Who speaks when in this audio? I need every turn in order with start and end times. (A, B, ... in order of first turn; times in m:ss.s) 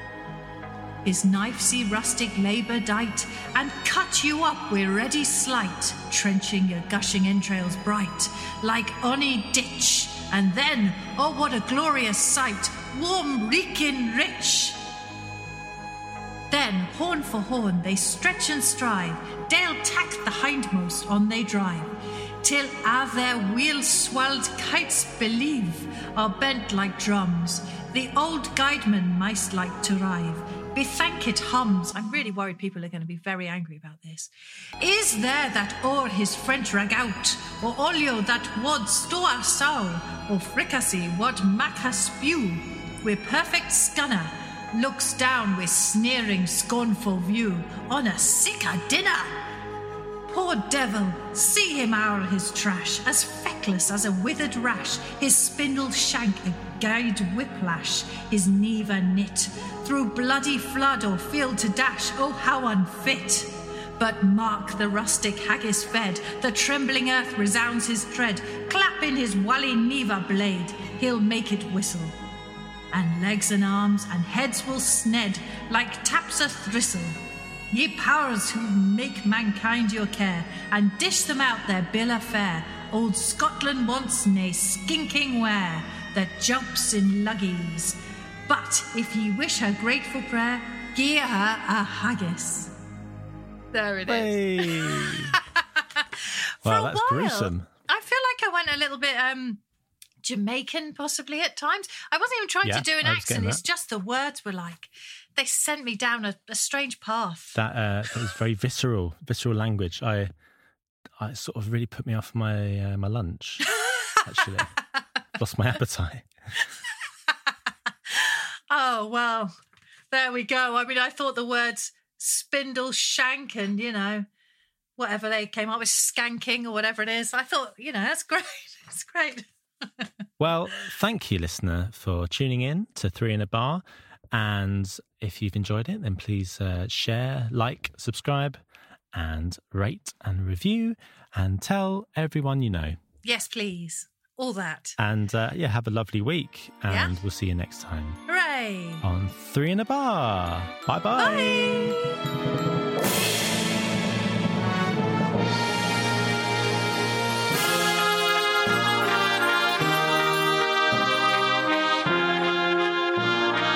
0:01.0-0:14.8 A
0:16.5-0:21.9 A
0:22.4-0:49.4 A
0:50.3-1:12.1 A
1:12.9-1:17.2 A
1:17.7-1:32.7 A
1:33.7-1:39.6 A
1:34.0-1:35.3 B
1:36.6-1:37.7 B
1:40.2-1:47.6 A
1:42.6-1:43.6 B
1:47.5-1:50.3 B
1:51.2-1:53.7 B
1:53.7-1:54.2 A
1:54.2-1:54.8 B
1:55.4-1:56.3 B
1:58.1-1:59.5 A
2:00.1-2:04.3 A
2:05.0-2:10.1 A
2:10.4-2:18.6 B
2:19.1-2:23.0 B
2:23.2-2:25.0 A
2:25.0-2:28.2 B
2:26.9-2:27.1 A
2:28.3-2:29.0 A
2:29.0-2:32.0 B
2:31.2-2:32.1 A